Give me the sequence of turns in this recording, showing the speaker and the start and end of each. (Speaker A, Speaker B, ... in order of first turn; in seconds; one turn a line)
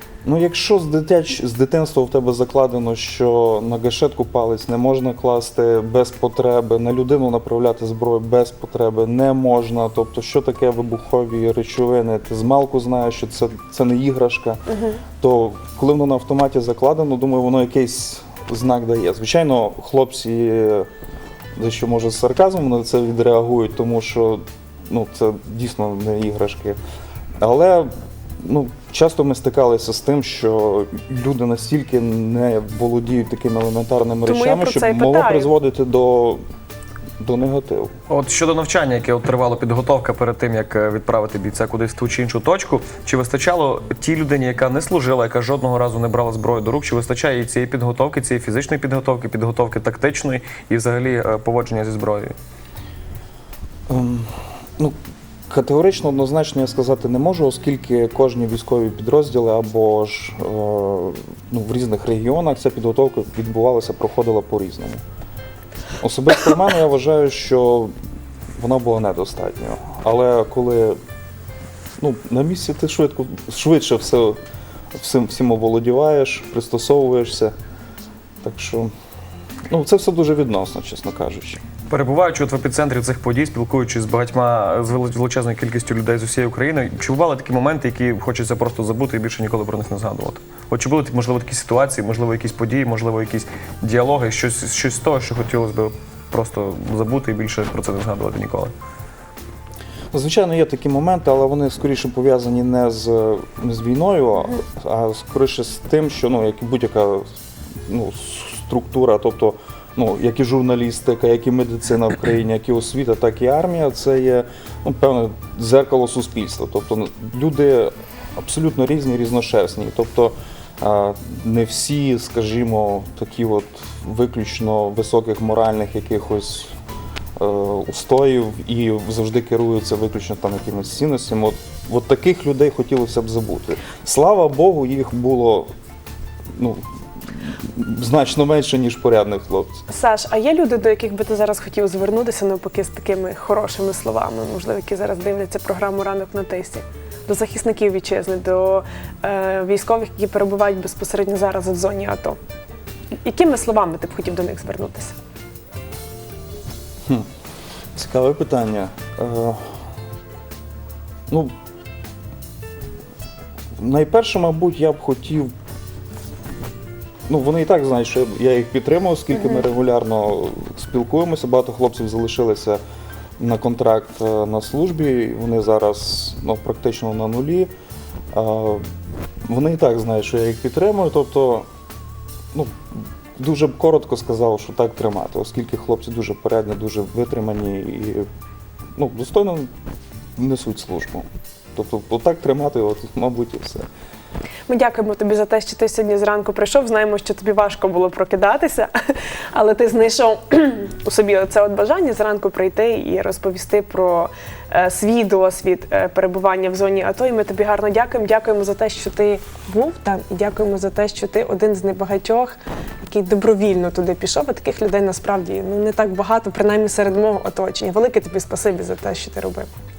Speaker A: 0.2-14.6
Speaker B: 14.7-15.0
Speaker A: 15.2-20.9
Speaker A: 21.6-26.8
Speaker A: 27.4-27.9
Speaker A: 28.4-36.4
Speaker B: 34.2-35.5
Speaker A: 37.2-37.9
Speaker C: 38.1-52.3
Speaker A: 53.9-54.9
Speaker A: 55.5-65.0
Speaker A: 66.0-67.9
Speaker A: 68.6-71.0
Speaker A: 72.0-74.4
Speaker A: 74.9-77.5
Speaker A: 78.4-78.9
Speaker A: 79.7-81.6
Speaker C: 81.9-98.7
Speaker A: 100.1-107.2
Speaker A: 107.9-126.7
Speaker A: 127.4-135.7
Speaker A: 136.5-139.8
Speaker B: 139.9-152.4
Speaker B: 153.2-155.2
Speaker A: 157.9-159.6
Speaker A: 163.8-165.5
Speaker A: 167.3-172.8
Speaker B: 169.3-169.6
Speaker A: 173.4-177.7
Speaker A: 178.3-178.8
Speaker A: 179.4-181.7
Speaker A: 183.4-188.2
Speaker A: 188.9-189.7
Speaker A: 190.3-193.9
Speaker B: 194.7-198.9
Speaker B: 199.5-219.7